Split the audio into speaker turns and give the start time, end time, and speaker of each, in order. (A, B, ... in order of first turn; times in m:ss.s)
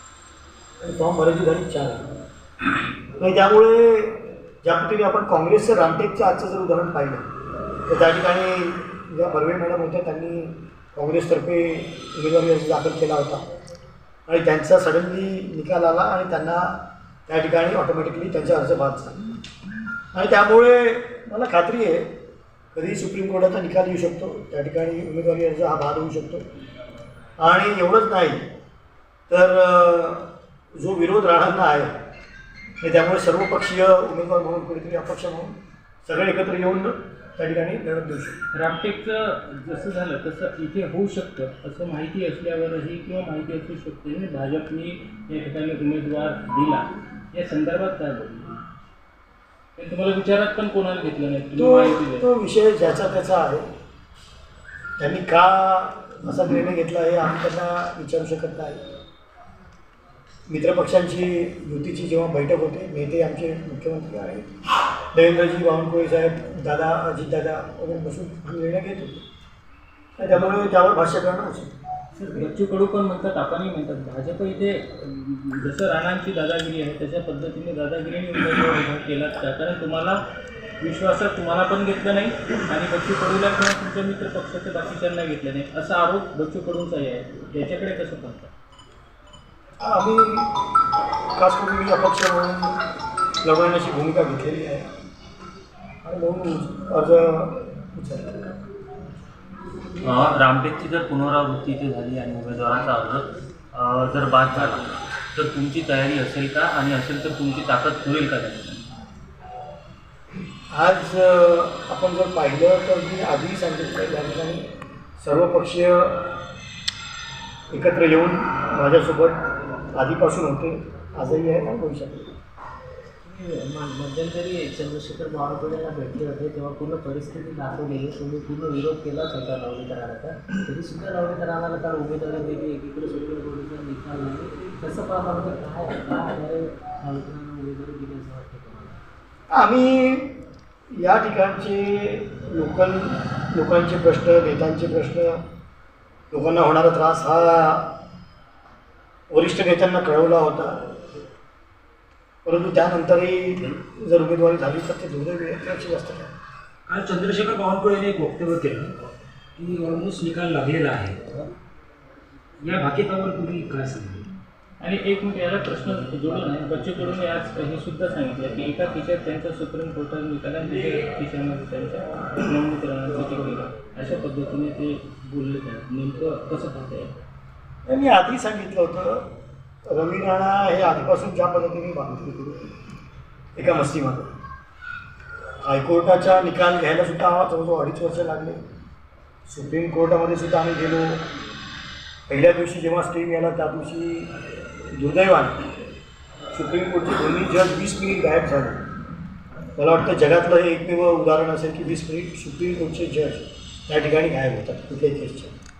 0:00.8-0:02.1 A
0:03.2-0:07.3 A
0:07.9-0:13.4 A
0:14.3-0:19.2 A
0:20.1-0:22.2 A
0:22.7-0:26.4 A
0:27.4-0:28.4 A
0:29.3-0:31.9 A
0:32.8-0:38.4 A
0:38.5-0:48.6 B
0:49.8-0:52.3 B
0:51.6-0:53.6 A
0:55.0-0:58.8 A
1:00.5-1:04.5 A
1:05.1-1:09.2 A
1:10.2-1:11.7 A
1:12.2-1:20.2 B
1:20.8-1:28.5 B
1:29.8-1:32.8 A
1:33.4-1:34.9 A
1:36.0-1:38.5 A
1:40.0-1:44.8 C
1:44.4-1:44.8 B
1:45.4-1:48.5 C
1:45.4-1:48.8 B
1:50.7-1:54.7 A
1:55.2-1:56.4 A
1:57.7-2:02.3 A
2:03.2-2:19.0 D
2:19.5-2:20.4 A
2:20.9-2:25.4 A
2:26.3-2:28.0 A
2:29.3-2:30.8 A
2:32.4-2:36.3 A
2:36.9-2:39.0 E
2:39.6-2:41.4 E
2:42.6-2:44.3 E
2:44.8-2:57.1 B
2:57.8-2:59.3 A
2:59.9-3:02.7 A
3:03.5-3:04.3 A
3:05.6-3:08.6 A
3:09.5-3:11.3 A
3:12.3-3:14.3 A
3:14.9-3:15.6 A
3:16.5-3:18.8 A
3:19.8-3:25.5 A